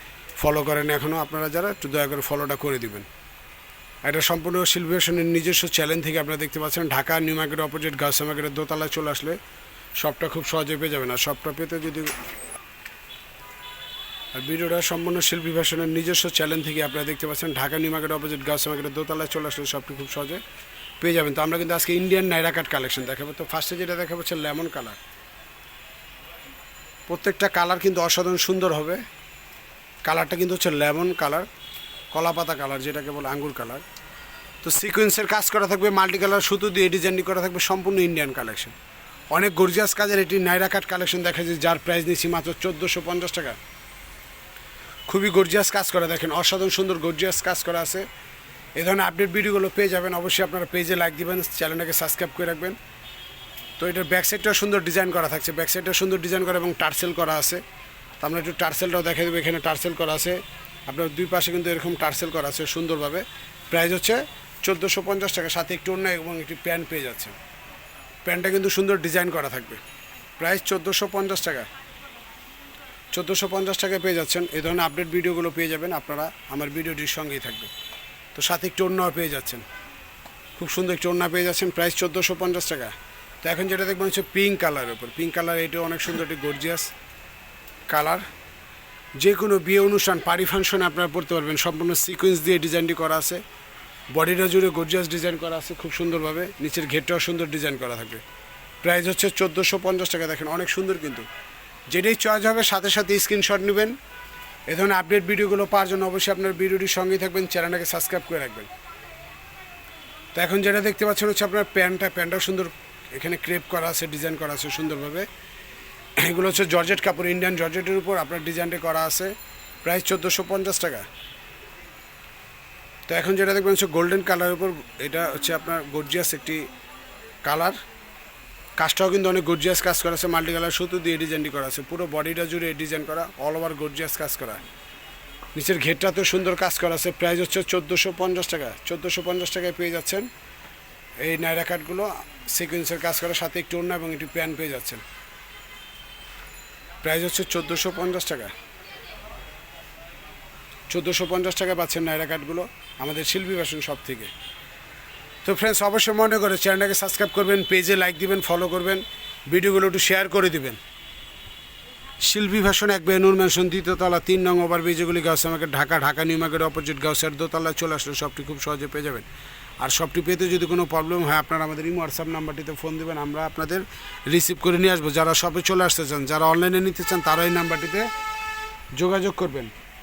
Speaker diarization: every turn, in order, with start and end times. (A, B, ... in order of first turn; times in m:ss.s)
0:00.4-0:03.1 A
0:04.0-0:09.4 A
0:10.0-0:12.1 A
0:14.3-0:20.4 A
0:21.0-0:25.0 A
0:27.1-0:29.0 A
0:30.0-0:31.5 A
0:32.1-0:33.8 A
0:34.6-0:38.7 A
0:39.3-0:43.6 A
0:45.1-0:48.0 A
0:48.8-0:52.8 A
0:53.8-0:57.6 A
0:58.2-1:07.4 A
1:08.2-1:09.8 A
1:10.4-1:11.7 A
1:13.1-1:17.7 A
1:18.3-1:19.6 A
1:20.6-1:26.9 A
1:27.9-1:28.2 A
1:29.2-1:33.4 A
1:34.1-1:38.2 A
1:38.8-1:41.3 A
1:41.9-1:44.0 A
1:44.7-1:48.7 A
1:50.3-1:55.3 A
1:56.2-2:01.0 A
2:03.1-2:06.7 A
2:07.4-2:07.8 A
2:08.8-2:14.6 A
2:15.5-2:20.3 A
2:21.2-2:25.0 A
2:27.0-2:28.5 A
2:30.9-2:34.3 A
2:35.4-2:40.8 A
2:42.2-2:49.3 A
2:49.8-2:58.1 A
2:58.9-2:59.7 A